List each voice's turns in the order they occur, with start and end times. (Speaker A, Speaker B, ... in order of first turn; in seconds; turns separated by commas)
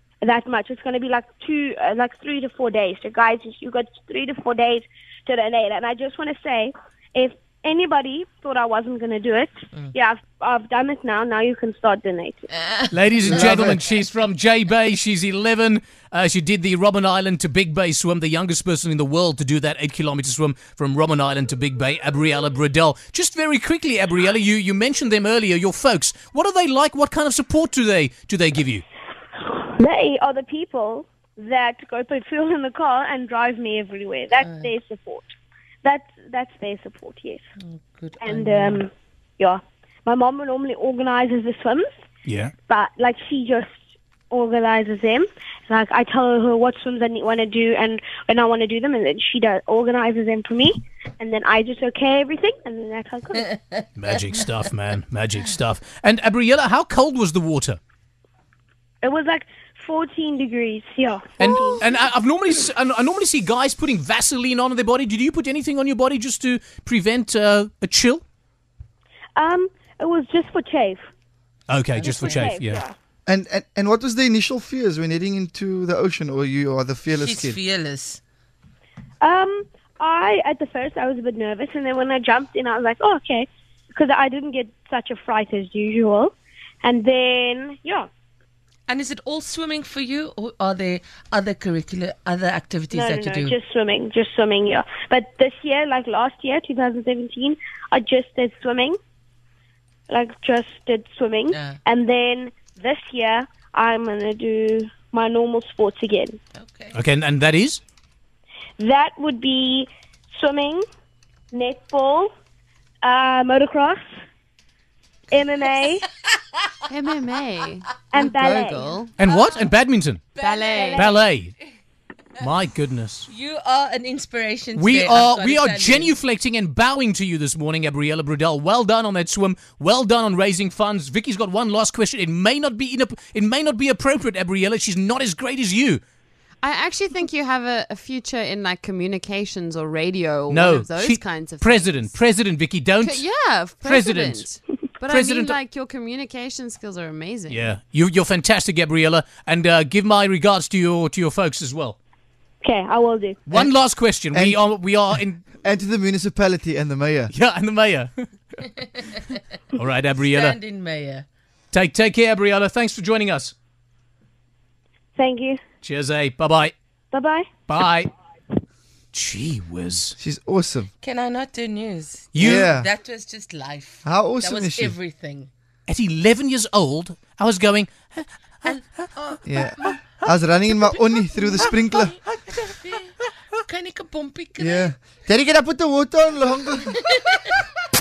Speaker A: 0.2-12.5, Speaker B: 12.6-13.5, Speaker C: 12.9-28.8, Speaker D: 13.3-13.7, Speaker A: 29.4-35.3, Speaker B: 34.4-34.7, Speaker A: 35.8-37.4, Speaker B: 37.6-38.8, Speaker A: 38.2-41.9, Speaker C: 42.2-42.5, Speaker A: 42.7-43.7, Speaker A: 44.3-53.6, Speaker C: 54.0-57.8, Speaker A: 59.0-61.9, Speaker C: 61.4-68.2, Speaker A: 69.3-71.0, Speaker C: 71.7-72.8, Speaker A: 72.0-72.9, Speaker D: 73.2-77.6, Speaker B: 77.2-78.2, Speaker A: 79.2-88.1, Speaker B: 88.9-93.5, Speaker A: 92.9-99.0, Speaker A: 100.1-106.4, Speaker B: 101.5-101.8, Speaker B: 106.5-107.0, Speaker C: 106.9-107.8, Speaker A: 108.8-110.8, Speaker A: 111.5-112.3, Speaker A: 113.0-114.0, Speaker A: 115.3-116.1, Speaker E: 116.9-119.1, Speaker A: 118.1-119.0, Speaker C: 119.2-120.2, Speaker B: 119.2-119.5, Speaker B: 120.4-121.2, Speaker E: 120.4-121.0, Speaker A: 120.5-121.2, Speaker C: 120.9-121.5, Speaker C: 122.4-123.3, Speaker B: 123.3-126.1, Speaker C: 124.7-136.0, Speaker E: 136.6-142.1, Speaker C: 140.5-143.2, Speaker E: 143.0-147.7, Speaker C: 143.8-144.5, Speaker C: 145.1-145.6, Speaker C: 147.5-151.9, Speaker A: 152.6-153.4, Speaker C: 153.5-155.4, Speaker D: 154.3-154.6, Speaker D: 155.6-157.3, Speaker C: 157.3-158.7, Speaker C: 159.7-160.6, Speaker B: 160.2-161.2, Speaker C: 161.7-163.5, Speaker A: 165.2-165.6, Speaker C: 165.8-166.7, Speaker A: 167.1-167.5, Speaker C: 167.7-168.1, Speaker C: 169.1-170.2, Speaker D: 170.2-170.9, Speaker B: 171.0-175.5, Speaker C: 172.3-172.7, Speaker D: 172.4-172.9, Speaker D: 174.0-174.9, Speaker C: 175.9-178.8, Speaker D: 179.4-182.2, Speaker B: 181.6-184.9, Speaker D: 184.6-187.0, Speaker B: 187.0-187.4